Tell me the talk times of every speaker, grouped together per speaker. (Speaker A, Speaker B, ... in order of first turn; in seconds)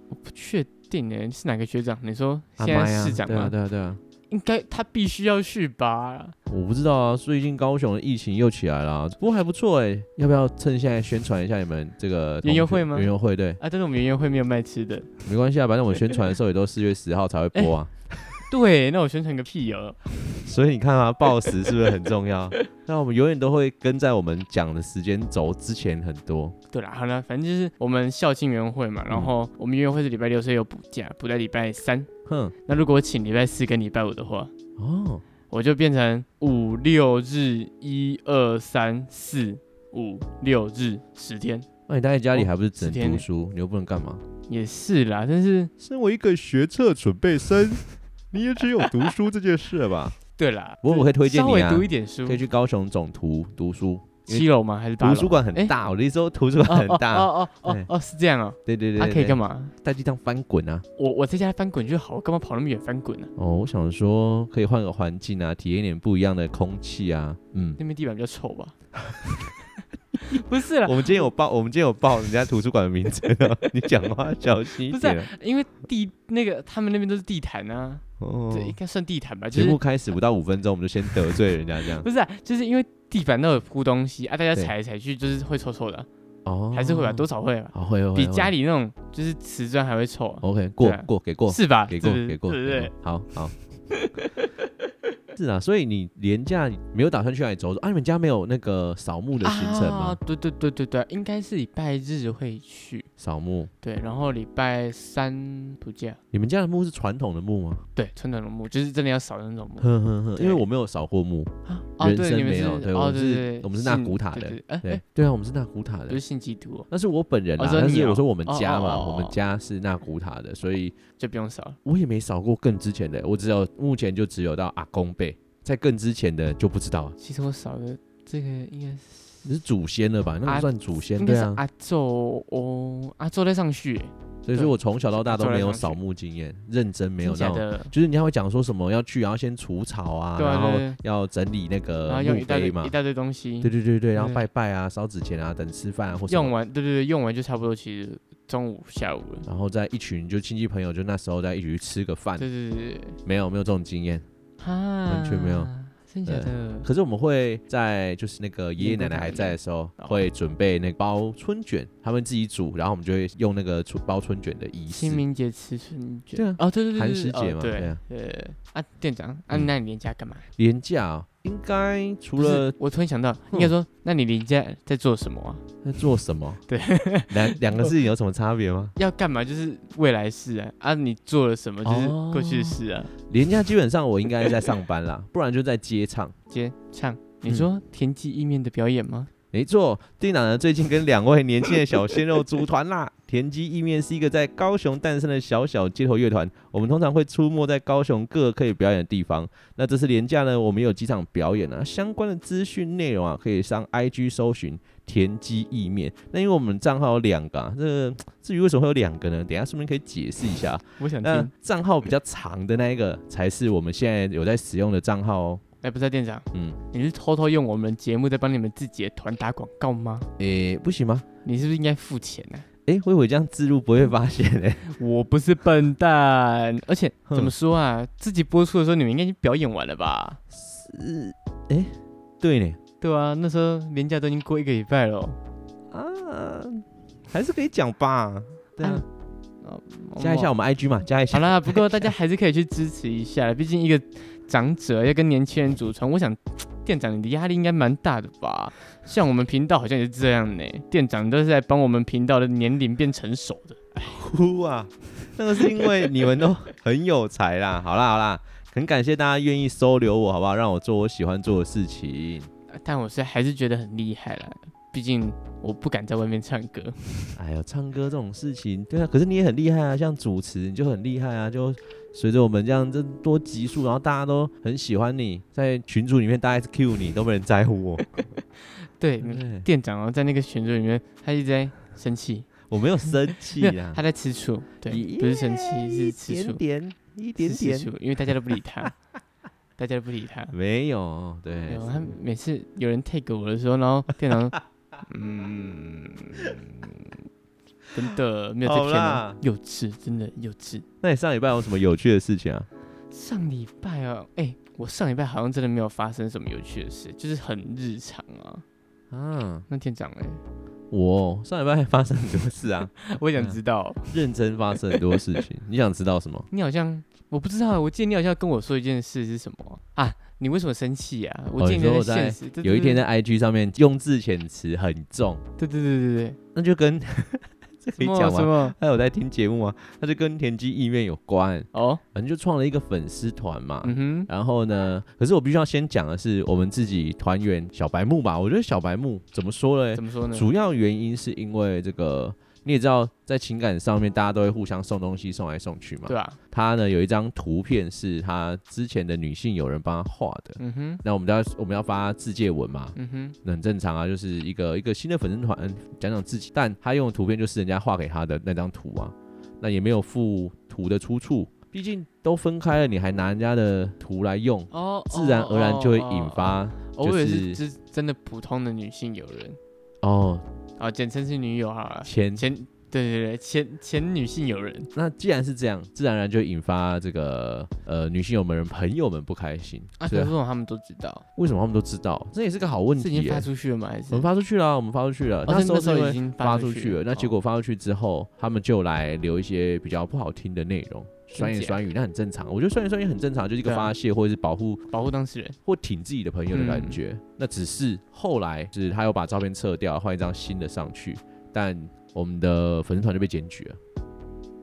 Speaker A: 0.1-3.5, 4.3-6.4, 12.4-15.2, 16.1-16.3, 18.4-20.2, 21.5-21.9, 26.7-32.1, 32.7-34.5, 35.5-41.7, 42.3-43.2, 44.5-45.7, 50.4-52.4, 54.3-55.7, 56.6-59.7, 61.0-63.3, 67.8-68.8, 70.2-71.2, 74.9-79.8, 81.1-81.3, 81.8-86.1, 86.7-92.9, 93.9-94.3, 99.4-103.1, 103.8-106.2, 108.0-110.7, 111.7-115.0, 116.1-116.9, 117.6-119.4, 121.2-121.8, 127.2-129.4, 130.5-136.0, 137.2-137.9, 140.4-141.0, 142.1-144.4, 146.3-149.5, 152.4-153.2, 154.6-156.9, 158.8-160.2, 164.9-170.5, 172.4-175.6, 176.7-177.9, 179.0-183.1, 186.5-189.3, 211.0-211.5, 215.8-220.3, 221.4-222.7, 224.9-230.4, 233.0-235.4, 238.8-239.1, 239.6-240.5, 241.3-254.2, 262.7-267.4, 278.4-282.5, 283.0-286.6, 287.4-288.9, 289.8-290.5, 291.7-297.2, 297.9-300.9, 303.1-308.6, 309.7-310.4, 313.0-314.2, 314.9-315.2, 316.5-323.0, 325.6-326.4, 328.0-328.8, 331.7-332.0, 333.8-334.3, 339.9-340.5, 346.1-346.4, 350.6-351.0, 352.9-353.4, 364.7-369.6, 370.8-374.9, 380.0-381.2, 383.0-384.3, 385.5-387.4, 391.4-391.8, 393.6-393.9, 394.9-395.6, 396.5-397.0
Speaker B: 2.6-4.0, 6.5-13.6, 15.3-18.4, 20.4-26.6, 32.3-32.5, 34.8-35.2, 41.9-44.2, 45.8-50.2, 50.8-54.5, 55.0-57.9, 58.7-60.9, 63.4-67.8, 70.3-75.3, 78.2-78.8, 79.5-82.1, 86.5-88.5, 90.4-93.5, 95.4-100.2, 103.2-103.7, 106.3-107.8, 109.8-116.2, 116.9-121.0, 121.8-127.2, 129.4-131.6, 134.4-142.9, 143.6-146.5, 149.5-152.5, 153.2-154.2, 155.1-155.7, 156.3-165.2, 166.4-168.0, 170.6-172.8, 175.8-176.6, 177.3-178.9, 181.8-186.3, 189.5-215.6, 216.5-216.8, 220.4-221.3, 222.9-224.9, 227.3-227.5, 230.5-232.8, 235.9-239.1, 240.2-242.1, 254.1-262.5, 267.4-278.3, 279.2-279.7, 282.7-284.0, 284.9-287.9, 290.5-292.1, 298.6-299.4, 301.0-302.7, 309.1-309.7, 310.9-313.6, 314.1-316.5, 321.6-325.4, 326.6-367.6, 370.0-370.5, 372.1-372.4, 374.9-380.3, 381.4-383.5, 384.1-394.9, 395.6-403.8